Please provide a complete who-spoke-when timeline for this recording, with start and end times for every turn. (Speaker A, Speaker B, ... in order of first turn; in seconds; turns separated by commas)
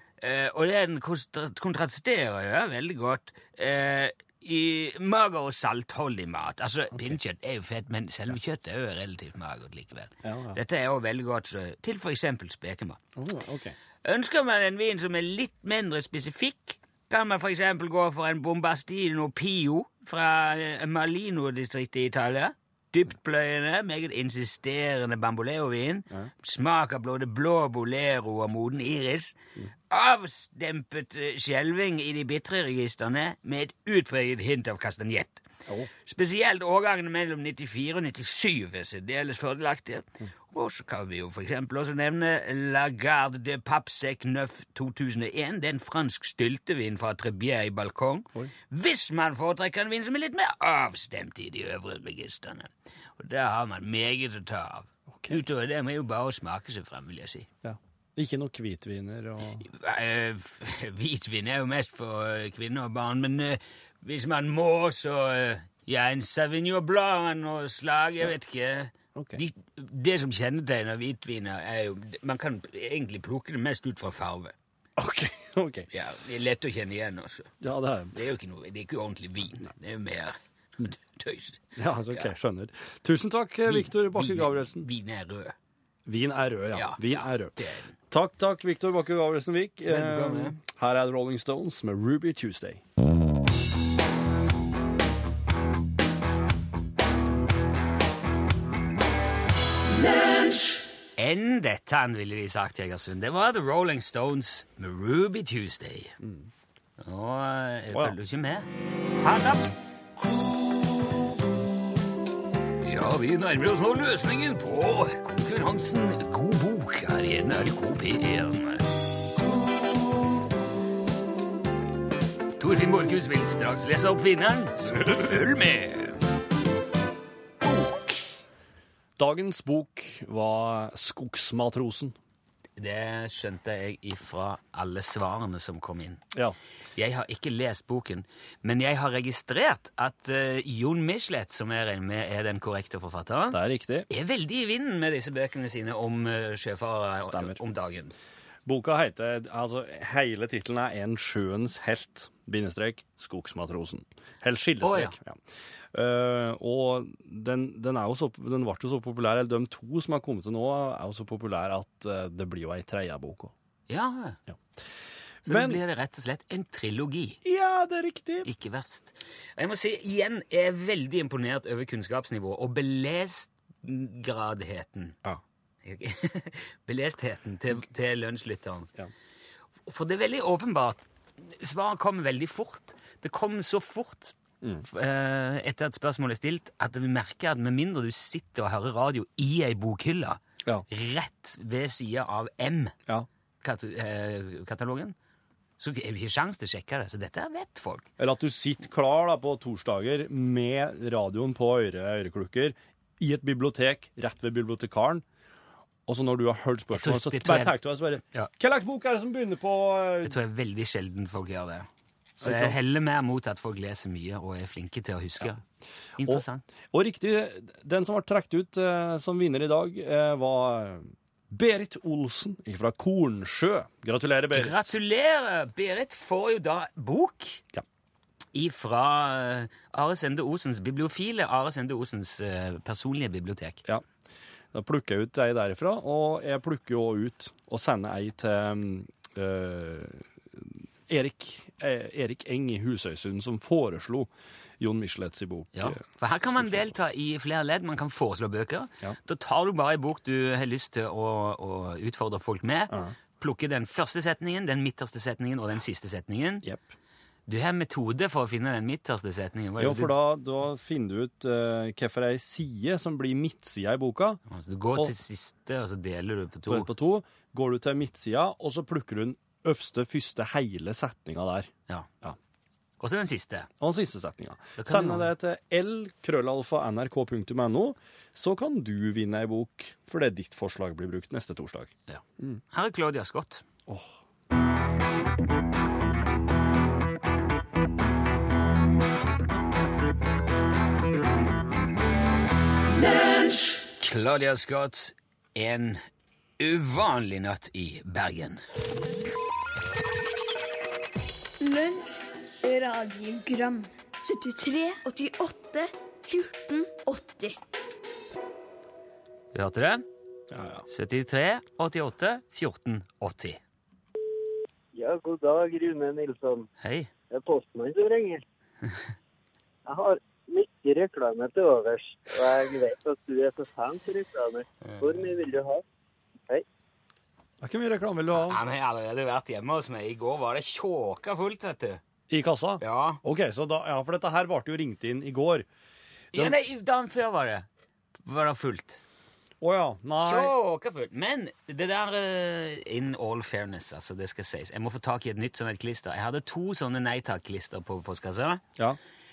Speaker A: 0.2-13.0, Speaker B: 10.2-10.6, Speaker B: 13.2-13.8, Speaker A: 14.0-29.3, Speaker A: 29.9-35.4, Speaker A: 36.0-57.5, Speaker B: 55.1-55.4, Speaker B: 57.6-59.6, Speaker A: 59.6-74.5, Speaker B: 69.1-69.4, Speaker B: 75.0-75.9, Speaker A: 75.9-77.5, Speaker B: 77.6-78.1, Speaker A: 78.1-82.3, Speaker B: 81.8-84.9, Speaker A: 83.7-85.5, Speaker B: 86.0-87.6, Speaker A: 86.7-87.9, Speaker B: 88.1-92.8, Speaker A: 89.9-90.6, Speaker A: 101.2-106.1, Speaker B: 106.2-106.5, Speaker A: 107.0-108.7, Speaker A: 109.2-109.7, Speaker A: 112.8-118.8, Speaker A: 122.6-126.2, Speaker A: 127.7-128.1, Speaker B: 129.2-132.1, Speaker A: 132.8-136.2, Speaker A: 136.9-148.1, Speaker B: 143.5-144.1, Speaker B: 147.2-147.6, Speaker B: 148.7-155.4, Speaker A: 154.8-155.1, Speaker B: 155.9-163.5, Speaker A: 163.9-164.4, Speaker B: 165.4-165.8, Speaker A: 165.4-167.4, Speaker B: 167.4-168.5, Speaker A: 168.4-175.2, Speaker A: 175.8-178.9, Speaker A: 179.8-184.3, Speaker A: 184.8-192.9, Speaker A: 193.6-195.1, Speaker A: 195.8-198.1, Speaker B: 198.2-205.2, Speaker B: 206.1-210.4, Speaker A: 206.9-207.8, Speaker A: 210.2-211.9, Speaker A: 212.4-215.6, Speaker B: 212.4-212.8, Speaker A: 216.2-216.6, Speaker B: 216.2-224.9, Speaker A: 224.5-227.6, Speaker A: 228.5-233.8, Speaker B: 234.7-246.9, Speaker A: 245.7-256.6, Speaker B: 252.9-253.1, Speaker B: 256.6-256.9, Speaker A: 257.5-260.2, Speaker B: 259.8-264.4, Speaker A: 264.5-266.9, Speaker B: 266.7-271.7, Speaker A: 273.0-273.7, Speaker B: 273.8-282.6, Speaker A: 274.8-275.3, Speaker A: 282.1-283.6, Speaker B: 283.9-284.1, Speaker A: 294.0-296.0, Speaker A: 296.6-298.6, Speaker C: 301.6-307.6, Speaker A: 309.5-310.0, Speaker B: 310.5-310.9, Speaker A: 310.9-313.6, Speaker D: 314.9-316.6, Speaker A: 316.8-317.1, Speaker D: 317.3-318.4, Speaker D: 319.9-325.8, Speaker B: 327.6-328.6, Speaker A: 328.3-332.0, Speaker B: 332.3-335.6, Speaker A: 332.8-333.2, Speaker A: 336.3-337.7, Speaker A: 338.2-339.0, Speaker B: 339.6-340.5, Speaker A: 340.2-348.6